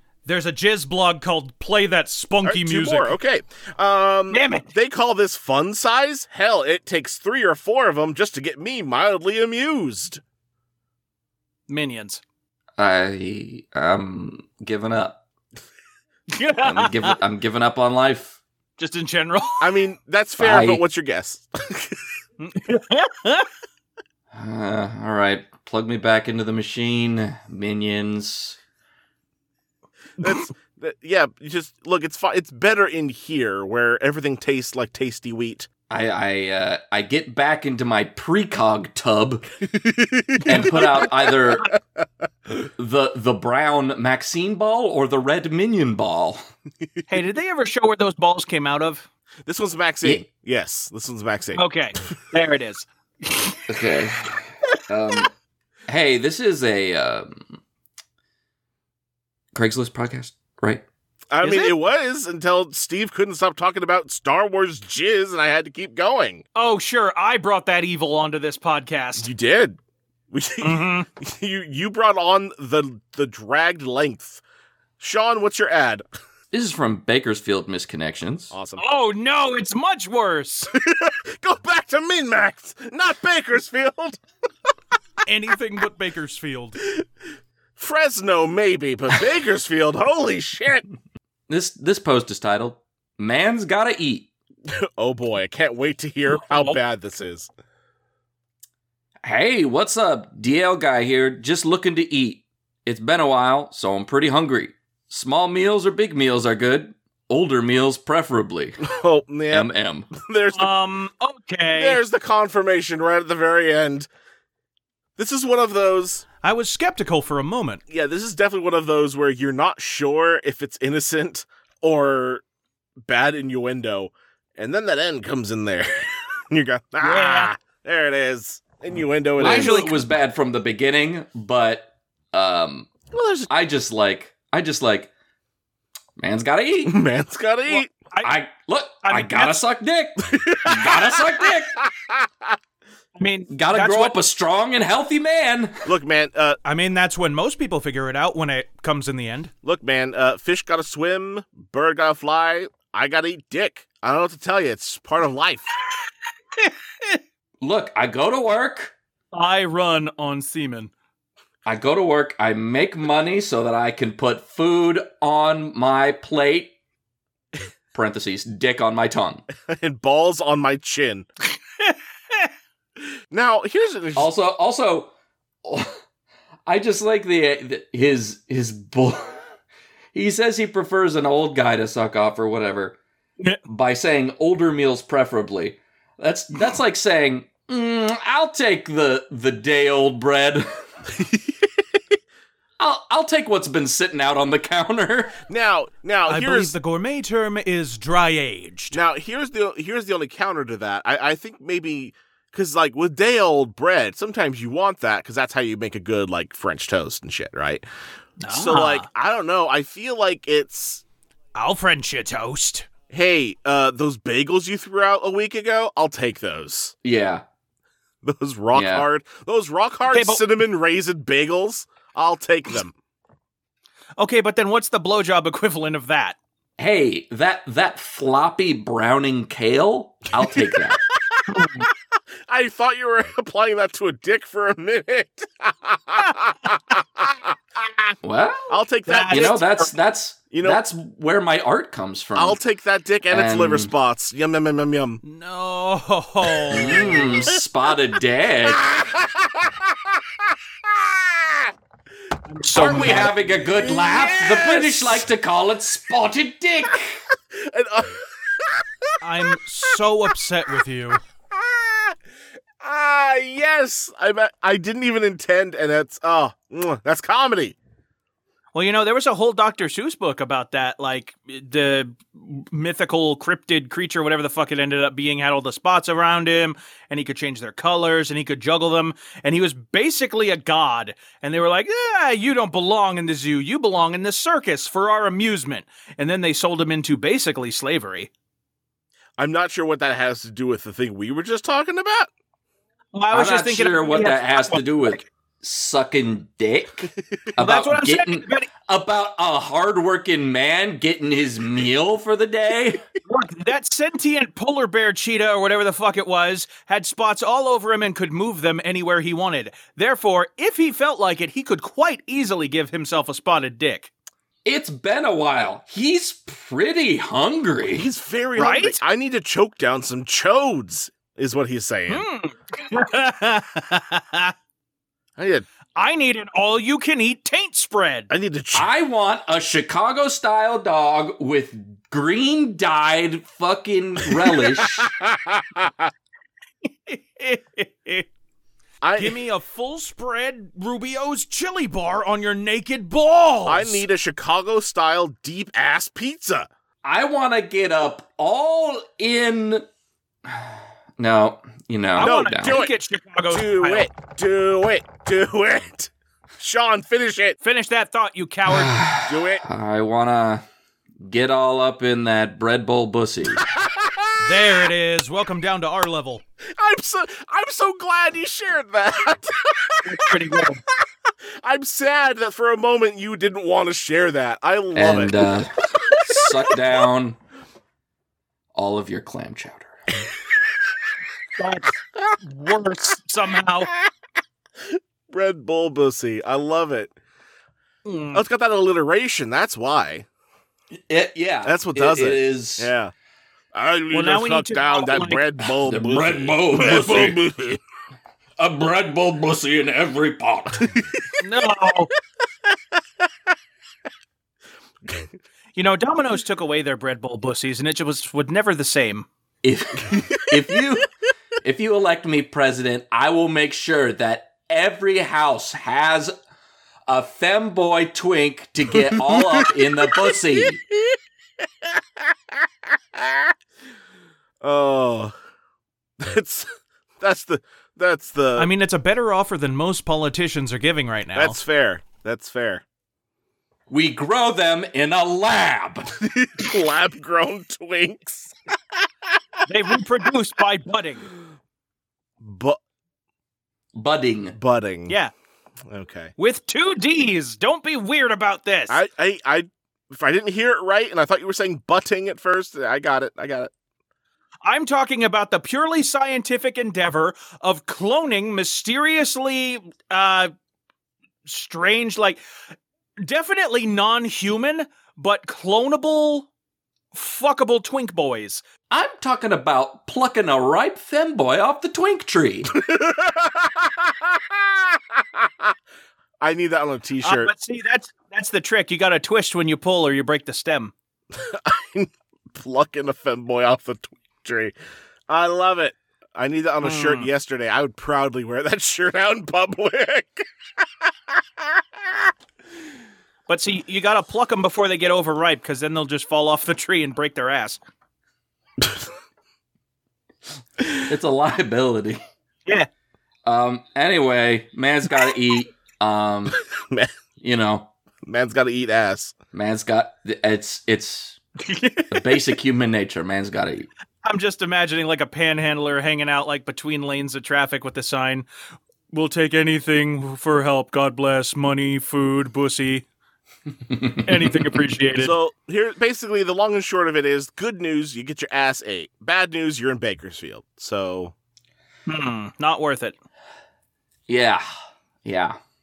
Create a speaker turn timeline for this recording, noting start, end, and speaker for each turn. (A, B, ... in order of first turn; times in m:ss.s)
0:00.2-0:03.1 A
0:02.4-0:10.2 B
0:04.3-0:04.7 A
0:11.7-0:12.2 A
0:12.8-0:15.2 C
0:16.3-0:17.2 A
0:16.6-0:18.4 C
0:18.8-0:19.7 A
0:19.6-0:22.0 B
0:20.4-0:20.8 C
0:22.4-0:23.5 A
0:24.3-0:28.6 C
0:30.2-0:35.7 B
0:35.9-0:39.5 C
0:39.7-0:41.6 B
0:40.4-0:41.7 C
0:40.5-0:41.0 A
0:42.6-0:46.4 C
0:47.1-0:49.1 A
0:49.4-0:51.6 B
0:51.5-0:53.6 A
0:53.7-0:55.3 C
0:55.9-0:57.6 C
0:59.5-1:00.8 C
1:01.3-1:06.4 B
1:01.4-1:01.8 A
1:06.5-1:09.3 A
1:09.2-1:09.8 B
1:10.3-1:14.4 B
1:10.6-1:11.1 A
1:15.0-1:16.0 B
1:16.5-1:18.5 C
1:18.5-1:18.8 B
1:18.8-1:20.7 A
1:20.7-1:24.2 B
1:25.2-1:26.8 A
1:27.8-1:30.8 B
1:31.5-1:34.3 C
1:34.7-1:37.5 B
1:36.3-1:36.8 A
1:39.2-1:48.9 C
1:48.8-1:50.7 B
1:49.5-1:50.1 C
1:50.5-1:52.0 A
1:51.7-1:54.1 B
1:55.2-1:56.2 B
1:56.4-1:57.8 A
1:57.9-2:02.4 B
2:03.0-2:09.8 B
2:07.0-2:07.5 A
2:09.4-2:12.9 C
2:09.4-2:10.0 A
2:13.1-2:13.5 B
2:13.5-2:15.1 C
2:16.2-2:17.0 C
2:16.8-2:17.9 B
2:17.7-2:18.3 A
2:18.2-2:21.8 C
2:19.0-2:19.6 A
2:20.2-2:22.6 B
2:23.2-2:24.2 A
2:23.5-2:25.8 C
2:25.8-2:26.6 B
2:26.6-2:29.5 A
2:29.6-2:35.7 B
2:36.6-2:37.2 A
2:37.6-2:38.9 C
2:39.3-2:40.9 A
2:41.6-2:46.7 C
2:47.9-2:49.4 C
2:49.6-2:51.2 B
2:51.8-2:52.5 A
2:53.3-2:54.3 B
2:54.2-2:55.1 C
2:55.6-2:56.0 C
2:56.7-2:59.4 C
3:00.1-3:03.0 C
3:03.6-3:10.7 C
3:11.1-3:11.6 B
3:12.8-3:15.4 C
3:15.4-3:16.7 B
3:16.3-3:19.0 A
3:18.9-3:27.8 B
3:28.4-3:29.1 A
3:28.5-3:31.0 B
3:31.5-3:32.9 A
3:33.1-3:36.9 B
3:37.0-3:37.4 C
3:38.2-3:42.9 B
3:38.7-3:39.0 C
3:40.1-3:40.4 A
3:44.2-3:46.4 A
3:46.8-3:51.0 C
3:50.9-3:51.8 B
3:51.5-3:51.9 A
3:52.5-3:58.1 B
3:58.2-3:58.7 C
3:58.7-3:59.8 B
3:59.1-3:59.9 A
3:59.3-4:02.6 C
4:00.5-4:00.8 B
4:02.3-4:05.2 B
4:03.3-4:03.9 C
4:05.2-4:07.3 A
4:06.6-4:07.6 B
4:06.7-4:08.9 C
4:08.7-4:10.3 B
4:10.8-4:11.7 B
4:12.5-4:13.3 A
4:12.7-4:17.2 C
4:13.0-4:15.3 B
4:17.5-4:19.1 B
4:19.2-4:21.2 A
4:21.5-4:22.1 B
4:22.8-4:27.8 B
4:28.7-4:48.3 A
4:49.4-4:52.3 B
4:53.1-4:55.2 A
4:53.3-5:03.0 C
4:57.6-4:58.7 A
5:03.2-5:14.1 A
5:14.6-5:18.1 C
5:17.9-5:22.2 B
5:18.6-5:19.0 A
5:22.1-5:24.5 A
5:25.4-5:25.6 B
5:26.0-5:28.3 A
5:28.3-5:28.9 B
5:28.7-5:35.1 C
5:34.4-5:36.1 B
5:36.8-5:38.3 A
5:39.0-5:39.4 B
5:39.2-5:44.0 A
5:43.6-5:46.7 B
5:47.0-5:49.8 C
5:50.4-5:52.8 C
5:52.2-5:54.1 A
5:52.2-5:52.9 B
5:53.5-5:57.6 B
5:57.6-5:59.0 A
5:58.7-6:00.6 C
5:59.2-5:59.6 B
6:01.2-6:03.7 C
6:03.6-6:04.7 B
6:04.4-6:06.4 A
6:06.8-6:11.0 B
6:10.0-6:10.8 A
6:11.6-6:16.8 B
6:14.9-6:17.4 C
6:18.7-6:19.9 C
6:21.6-6:23.9 A
6:24.8-6:27.1 B
6:28.0-6:28.4 A
6:28.3-6:30.3 B
6:31.1-6:32.9 C
6:31.6-6:33.1 B
6:33.7-6:37.8 B
6:34.1-6:35.4 A
6:35.7-6:37.4 C
6:38.6-6:40.9 C
6:40.8-6:41.2 B
6:41.4-6:42.1 A
6:45.7-6:49.3 A
6:49.6-6:51.1 C
6:50.1-6:50.8 B
6:51.6-6:56.3 C
6:57.1-7:00.8 C
6:58.9-7:03.5 B
7:04.6-7:05.3 B
7:06.2-7:08.7 B
7:08.6-7:11.6 A
7:11.3-7:12.8 B
7:13.9-7:16.1 C
7:16.2-7:19.4 B
7:19.7-7:21.3 A
7:22.4-7:22.8 B
7:23.9-7:24.6 C
7:24.6-7:25.1 B
7:25.9-7:26.3 B
7:26.4-7:29.0 A
7:28.9-7:33.7 B
7:34.6-7:40.5 A
7:41.4-7:42.4 A
7:43.2-7:46.5 A
7:47.1-7:48.6 A
7:48.9-7:52.7 C
7:52.7-7:55.7 B
7:56.4-7:57.5 B
7:57.2-8:00.9 A
8:01.3-8:04.7 B
8:05.3-8:12.3 B
8:06.8-8:07.3 A
8:13.5-8:17.8 A
8:20.9-8:22.2 C
8:23.4-8:26.6 C
8:26.7-8:27.1 B
8:27.4-8:27.9 C
8:28.2-8:29.4 B
8:29.5-8:31.4 C
8:31.6-8:32.2 A
8:32.1-8:33.9 C
8:34.2-8:38.5 A
8:39.1-8:43.0 A
8:43.9-8:44.2 C
8:44.2-8:45.3 A
8:45.2-8:51.3 B
8:52.1-8:53.2 A
8:54.3-8:54.6 C
8:55.2-8:55.6 C